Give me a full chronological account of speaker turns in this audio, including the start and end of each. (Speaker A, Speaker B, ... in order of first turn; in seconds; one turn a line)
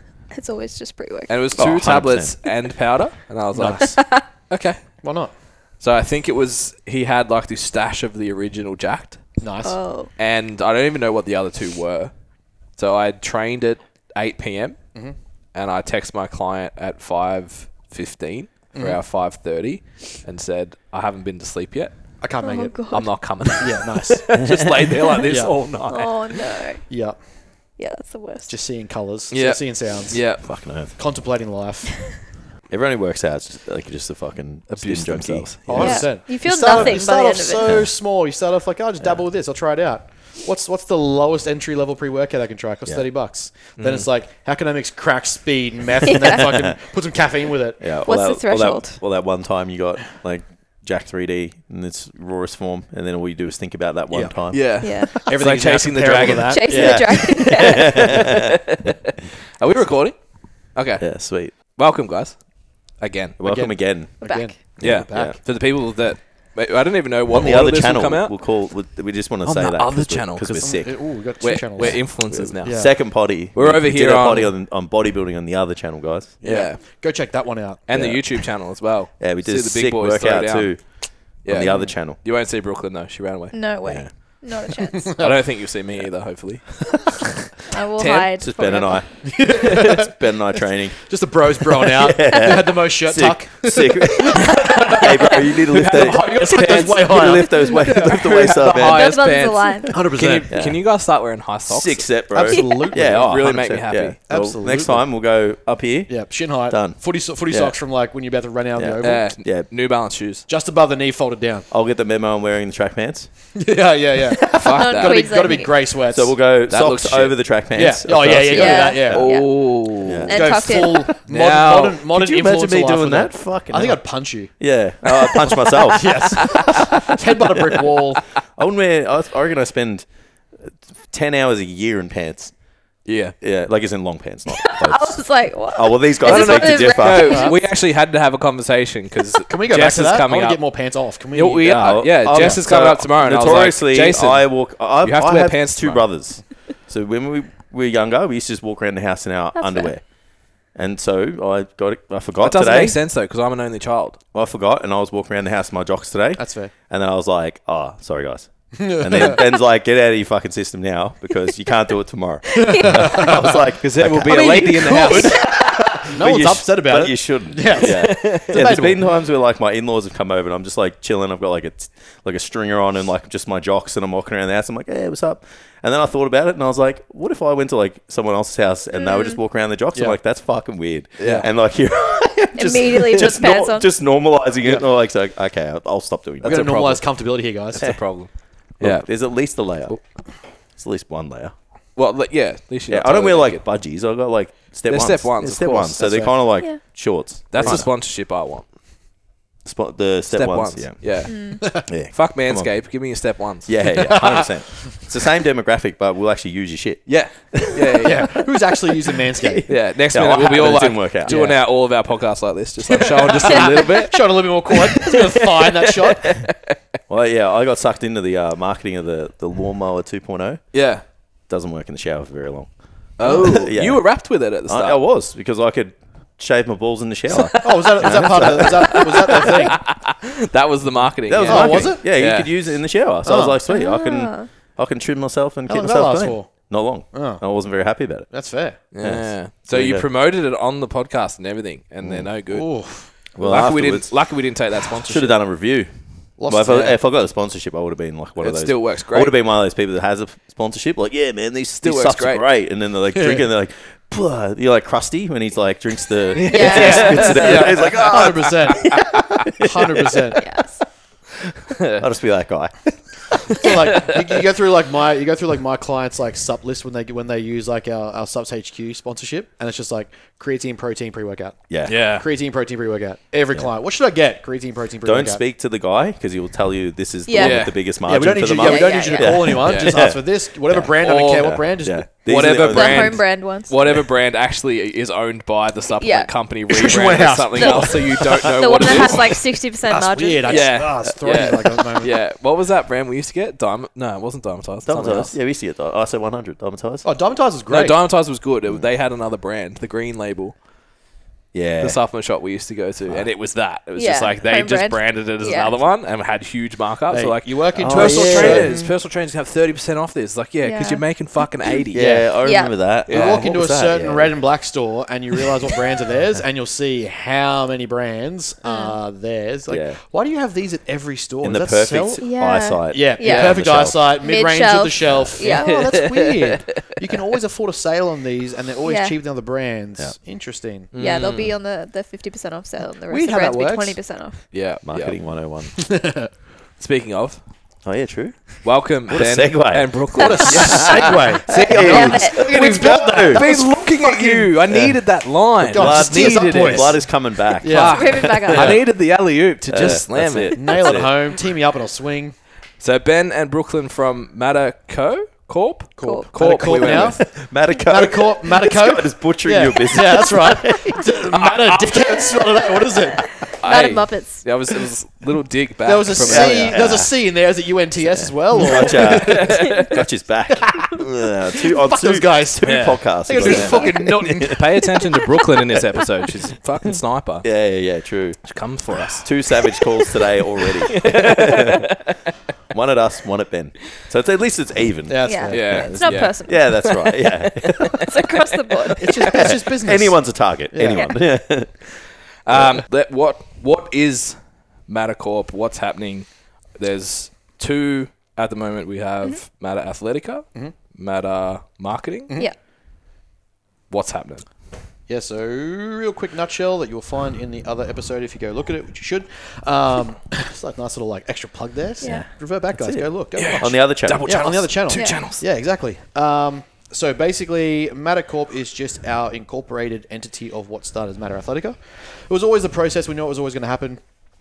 Speaker A: 0.3-1.3
Speaker B: 1.3-4.8
Speaker C: 1.6-2.4
Speaker D: 3.5-4.0
Speaker A: 3.8-4.2
Speaker D: 5.0-5.3
Speaker B: 5.8-9.2
Speaker D: 9.4-9.8
Speaker A: 9.6-10.1
Speaker B: 10.2-12.1
Speaker B: 12.7-14.8
Speaker B: 15.5-21.9
Speaker D: 18.7-19.0
Speaker D: 22.2-22.8
Speaker A: 22.4-23.1
Speaker B: 22.9-26.4
Speaker D: 23.6-24.4
Speaker D: 25.3-25.5
Speaker A: 25.9-26.9
Speaker D: 26.9-27.2
Speaker A: 27.8-28.5
Speaker D: 28.5-30.4
Speaker B: 29.3-30.4
Speaker C: 30.4-31.0
Speaker D: 30.9-32.2
Speaker C: 32.7-36.1
Speaker B: 34.7-36.0
Speaker D: 35.7-47.9
Speaker A: 35.7-37.8
Speaker A: 46.1-46.4
Speaker C: 46.4-46.8
Speaker C: 47.8-55.0
Speaker A: 48.0-49.0
Speaker D: 54.1-54.4
Speaker B: 54.5-56.6
Speaker A: 54.8-55.2
Speaker D: 55.2-58.0
Speaker A: 56.5-58.3
Speaker C: 56.7-58.5
Speaker B: 58.6-60.2
Speaker B: 60.7-62.5
Speaker C: 61.0-61.5
Speaker B: 63.0-63.4
Speaker C: 63.4-65.4
Speaker D: 63.4-65.4
Speaker A: 64.2-64.5
Speaker B: 64.8-68.3
Speaker C: 67.3-71.0
Speaker B: 69.4-74.5
Speaker D: 70.6-72.9
Speaker C: 71.8-76.4
Speaker B: 76.4-76.8
Speaker D: 76.4-77.9
Speaker B: 77.9-80.8
Speaker C: 77.9-78.5
Speaker C: 79.2-82.2
Speaker B: 81.4-83.6
Speaker D: 81.6-81.9
Speaker A: 83.5-85.1
Speaker D: 85.0-85.4
Speaker B: 85.2-88.3
Speaker A: 87.7-89.0
Speaker C: 88.4-91.1
Speaker D: 89.2-90.1
Speaker D: 91.0-98.1
Speaker C: 91.8-99.2
Speaker B: 95.6-102.1
Speaker A: 98.8-99.9
Speaker D: 99.9-100.5
Speaker C: 100.5-100.8
Speaker C: 101.7-107.8
Speaker D: 102.3-103.4
Speaker A: 102.4-102.9
Speaker B: 102.9-104.2
Speaker D: 104.3-105.0
Speaker D: 106.1-109.3
Speaker C: 108.8-109.7
Speaker B: 109.0-110.4
Speaker D: 110.5-111.7
Speaker C: 111.7-113.3
Speaker D: 113.5-116.3
Speaker A: 114.5-115.7
Speaker B: 114.5-115.4
Speaker C: 116.1-121.0
Speaker B: 116.7-117.4
Speaker D: 117.7-119.2
Speaker A: 118.5-121.1
Speaker B: 119.1-120.5
Speaker D: 120.3-124.5
Speaker B: 121.2-122.0
Speaker C: 121.9-126.4
Speaker B: 125.0-125.8
Speaker D: 125.9-128.3
Speaker C: 128.5-132.5
Speaker B: 133.0-133.3
Speaker C: 133.4-137.5
Speaker A: 134.5-137.6
Speaker B: 136.2-140.7
Speaker D: 137.2-137.6
Speaker D: 139.5-142.6
Speaker B: 141.3-146.1
Speaker C: 141.8-150.0
Speaker A: 149.5-149.9
Speaker C: 150.7-153.0
Speaker B: 152.4-154.2
Speaker C: 154.3-187.0
Speaker D: 156.4-156.7
Speaker D: 158.7-159.5
Speaker A: 162.5-163.3
Speaker D: 162.6-163.6
Speaker B: 163.8-165.4
Speaker D: 164.3-169.1
Speaker B: 167.8-168.5
Speaker A: 178.9-179.4
Speaker B: 181.2-181.5
Speaker A: 182.5-183.9
Speaker B: 186.4-187.1
Speaker D: 186.4-187.9
Speaker B: 187.7-189.1
Speaker C: 188.8-190.0
Speaker C: 190.8-191.5
Speaker B: 191.9-193.6
Speaker C: 192.9-197.9
Speaker B: 194.9-196.1
Speaker D: 196.0-196.4
Speaker B: 197.5-198.7
Speaker D: 197.5-197.8
Speaker C: 199.6-202.8
Speaker B: 200.3-204.2
Speaker A: 201.3-201.6
Speaker C: 203.6-208.4
Speaker D: 204.0-204.7
Speaker B: 207.1-208.3
Speaker D: 208.0-209.7
Speaker C: 209.4-211.4
Speaker B: 209.7-214.7
Speaker D: 211.2-211.6
Speaker D: 212.9-216.5
Speaker B: 216.2-216.7
Speaker C: 217.1-220.8
Speaker B: 220.7-221.0
Speaker C: 221.5-229.5
Speaker B: 223.2-225.0
Speaker D: 223.2-223.5
Speaker B: 227.3-232.5
Speaker D: 227.5-229.9
Speaker C: 231.3-238.3
Speaker D: 231.4-232.1
Speaker D: 233.2-233.6
Speaker A: 233.7-234.5
Speaker D: 235.7-237.4
Speaker D: 238.3-238.8
Speaker B: 238.9-242.7
Speaker C: 239.0-240.0
Speaker C: 242.0-242.3
Speaker D: 242.5-243.1
Speaker C: 243.3-244.3
Speaker B: 243.4-245.4
Speaker C: 244.8-245.9
Speaker D: 246.4-246.9
Speaker C: 246.4-260.2
Speaker B: 246.6-247.0
Speaker B: 248.4-249.4
Speaker B: 251.8-252.4
Speaker D: 253.1-253.4
Speaker B: 256.3-258.5
Speaker D: 256.4-260.4
Speaker A: 256.5-257.5
Speaker A: 260.4-260.8
Speaker B: 261.7-262.0
Speaker C: 262.0-262.9
Speaker D: 263.6-275.4
Speaker B: 263.6-264.1
Speaker C: 271.7-272.0
Speaker B: 271.8-272.2
Speaker C: 275.0-283.2
Speaker A: 277.2-277.6
Speaker B: 277.4-277.8
Speaker D: 278.0-282.1
Speaker A: 278.6-279.5
Speaker B: 279.6-280.0
Speaker B: 281.0-281.6
Speaker B: 282.2-289.5
Speaker A: 282.7-283.9
Speaker A: 286.0-286.3
Speaker D: 286.7-288.3
Speaker A: 287.6-290.8
Speaker D: 289.9-292.1
Speaker B: 290.4-295.3
Speaker C: 294.8-297.1
Speaker D: 297.0-298.0
Speaker B: 297.7-300.6
Speaker C: 301.5-302.0
Speaker B: 301.8-312.0
Speaker A: 303.9-305.8
Speaker D: 307.1-308.7
Speaker C: 307.8-308.9
Speaker A: 310.6-311.4
Speaker C: 311.9-314.4
Speaker D: 311.9-312.3
Speaker A: 312.4-312.7
Speaker B: 313.1-313.5
Speaker D: 313.1-322.2
Speaker A: 318.6-319.0
Speaker C: 319.7-320.0
Speaker C: 321.4-324.2
Speaker A: 322.2-323.7
Speaker D: 322.9-330.9
Speaker A: 324.2-325.9
Speaker B: 325.5-326.2
Speaker A: 328.8-329.2
Speaker B: 330.9-331.5
Speaker A: 331.0-334.4
Speaker D: 333.1-334.0
Speaker B: 334.5-335.2
Speaker C: 334.8-335.8
Speaker D: 335.8-336.3
Speaker B: 336.8-337.4
Speaker C: 337.8-343.5
Speaker B: 338.6-342.6
Speaker A: 340.1-342.4
Speaker D: 340.1-344.5
Speaker B: 343.2-347.0
Speaker D: 345.7-347.0
Speaker C: 345.7-348.8
Speaker D: 347.6-348.5
Speaker B: 347.6-350.6
Speaker A: 347.9-348.8
Speaker C: 349.7-351.3
Speaker D: 350.5-352.4
Speaker B: 352.8-357.2
Speaker D: 356.0-363.4
Speaker A: 356.0-356.3
Speaker C: 356.8-361.0
Speaker B: 361.3-362.2
Speaker A: 363.5-364.4
Speaker B: 363.6-366.9
Speaker D: 365.8-369.8
Speaker C: 366.2-367.1
Speaker C: 368.0-374.6
Speaker B: 369.0-370.0
Speaker D: 370.6-371.0
Speaker D: 371.5-374.6
Speaker B: 372.6-377.4
Speaker A: 373.4-374.0
Speaker C: 377.4-378.4
Speaker B: 378.4-379.3
Speaker C: 379.2-381.9
Speaker B: 380.9-382.1
Speaker C: 382.7-388.1
Speaker D: 385.1-385.9
Speaker A: 385.2-387.0
Speaker B: 385.5-389.2
Speaker A: 388.0-389.4
Speaker D: 389.0-391.1
Speaker C: 389.3-392.0
Speaker B: 392.4-402.3
Speaker B: 403.9-404.4
Speaker D: 405.1-424.0
Speaker A: 412.0-412.3
Speaker C: 412.0-414.4
Speaker B: 413.3-415.4
Speaker A: 414.9-415.2